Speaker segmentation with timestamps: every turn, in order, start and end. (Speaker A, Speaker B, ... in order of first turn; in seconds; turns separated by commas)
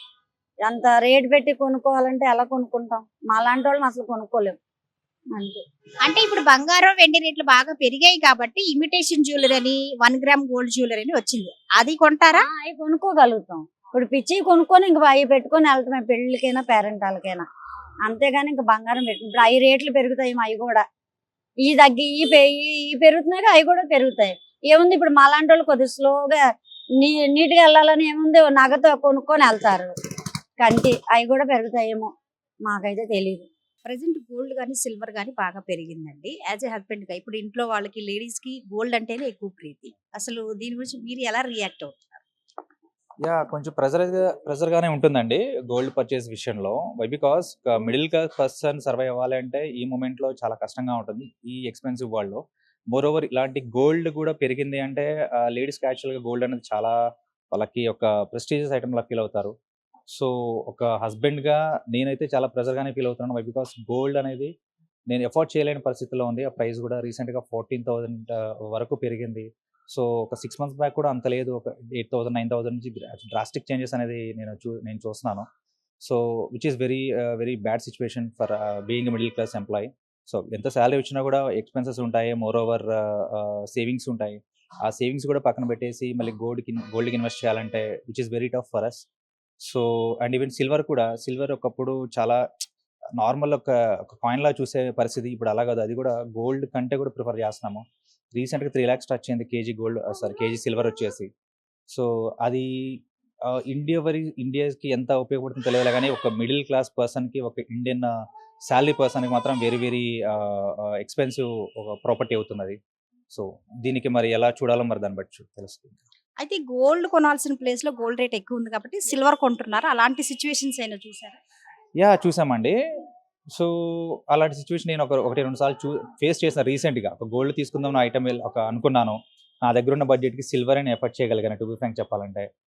Speaker A: 0.7-4.6, Speaker A: 5.4-5.6, Speaker B: 6.1-12.4, Speaker A: 12.3-17.5, Speaker A: 18.1-20.8, Speaker A: 21.6-26.4, Speaker A: 27.0-29.9, Speaker A: 30.6-32.1, Speaker A: 32.7-33.5, Speaker B: 33.9-42.2, Speaker C: 43.2-56.9, Speaker C: 57.5-59.5, Speaker C: 60.1-64.5, Speaker C: 65.1-75.5, Speaker C: 76.0-89.0, Speaker C: 89.6-92.4, Speaker C: 93.2-101.3, Speaker C: 101.9-108.1, Speaker C: 108.7-112.8, Speaker C: 113.3-116.0, Speaker B: 116.4-121.4, Speaker C: 122.0-122.8, Speaker C: 123.5-132.5